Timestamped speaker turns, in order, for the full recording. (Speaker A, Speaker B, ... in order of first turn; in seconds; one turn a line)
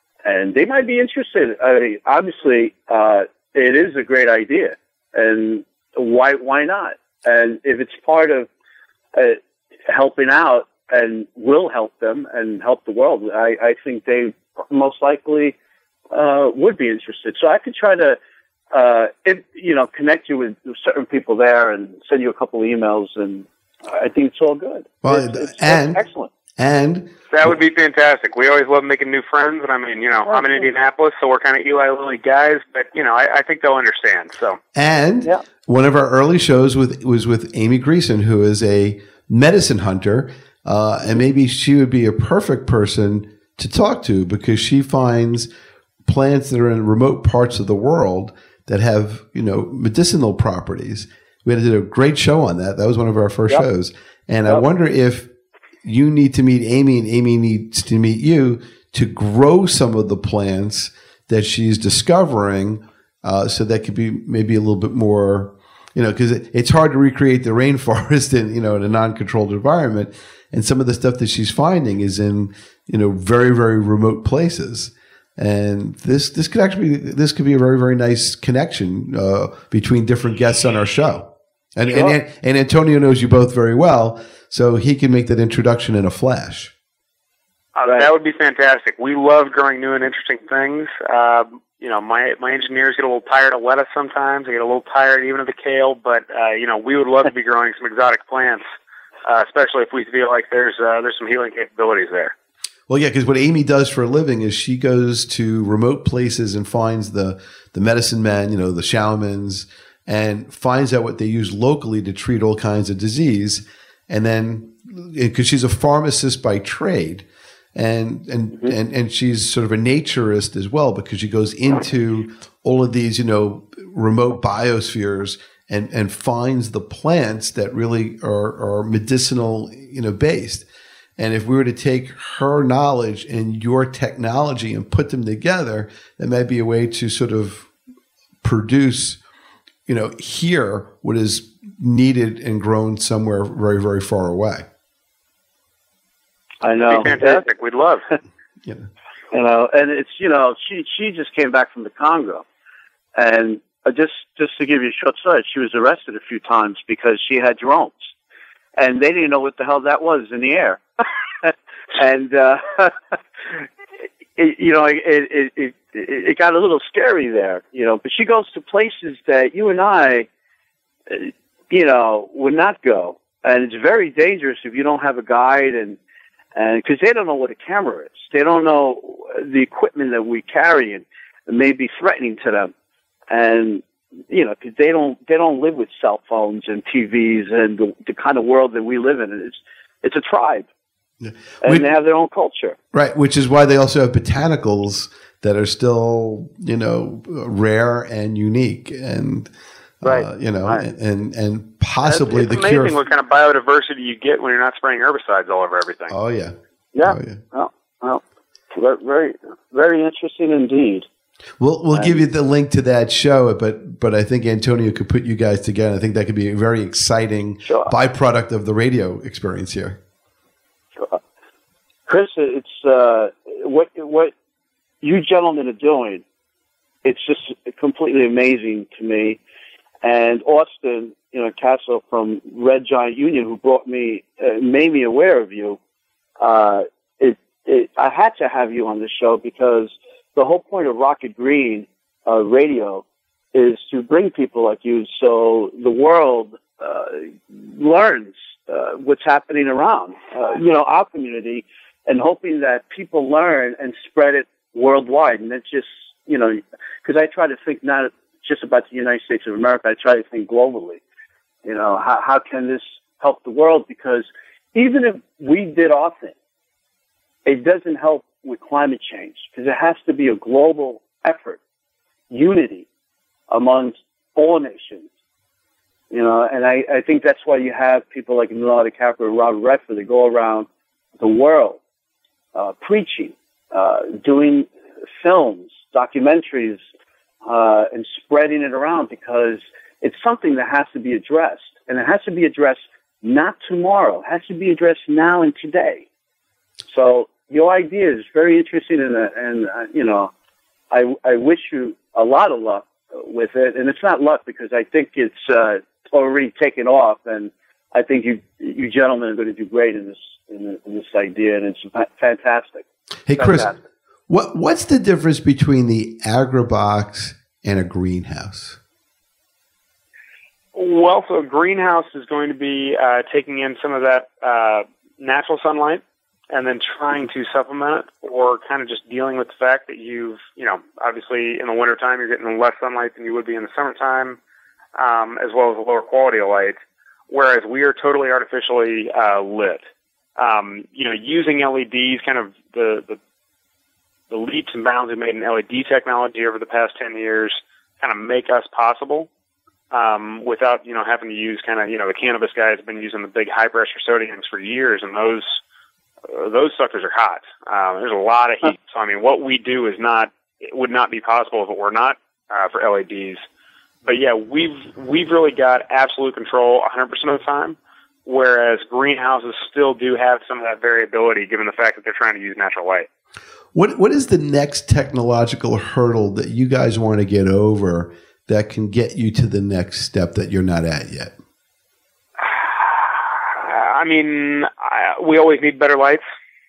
Speaker A: 0.2-8.5
Speaker A: 9.1-15.6
Speaker A: 16.1-18.2
Speaker A: 18.7-26.3
Speaker B: 25.0-26.0
Speaker B: 26.6-27.1
Speaker C: 27.3-34.6
Speaker B: 34.7-45.5
Speaker B: 46.1-55.3
Speaker B: 55.8-86.7
Speaker C: 87.8-98.6
Speaker C: 99.3-102.3
Speaker B: 102.9-130.7
Speaker B: 131.2-137.7
Speaker B: 138.4-139.2
Speaker B: 139.9-144.7
Speaker A: 146.6-147.4
Speaker C: 146.9-148.1
Speaker A: 149.3-152.4
Speaker A: 153.2-157.9
Speaker A: 158.8-163.2
Speaker A: 164.4-170.3
Speaker A: 171.1-176.0
Speaker A: 176.6-182.7
Speaker A: 183.3-190.7
Speaker B: 191.2-191.9
Speaker A: 191.6-192.8
Speaker B: 192.9-199.5
Speaker B: 200.0-203.0
Speaker A: 200.0-200.8
Speaker C: 202.1-206.1
Speaker B: 206.1-207.4
Speaker A: 206.9-211.1
Speaker B: 211.6-220.0
Speaker A: 211.9-212.2
Speaker A: 217.7-217.9
Speaker A: 222.1-224.3
Speaker A: 225.0-226.2
Speaker A: 227.0-229.4
Speaker A: 230.0-235.8
Speaker A: 236.4-261.0
Speaker A: 261.6-266.3
Speaker A: 267.5-271.6
Speaker A: 272.3-272.9
Speaker A: 273.5-275.1
Speaker A: 276.1-280.7
Speaker A: 281.2-281.8
Speaker A: 282.5-286.8
Speaker A: 287.4-296.1
Speaker A: 296.9-300.3
Speaker A: 300.9-312.9
Speaker B: 313.3-313.7
Speaker A: 313.4-313.8
Speaker B: 314.3-318.8
Speaker C: 320.8-334.4
Speaker C: 335.0-336.8
Speaker C: 337.3-339.8
Speaker C: 340.4-343.2
Speaker C: 344.3-349.3
Speaker C: 349.9-355.6
Speaker C: 356.3-363.4
Speaker C: 364.1-373.1
Speaker B: 373.7-381.3
Speaker C: 382.4-386.2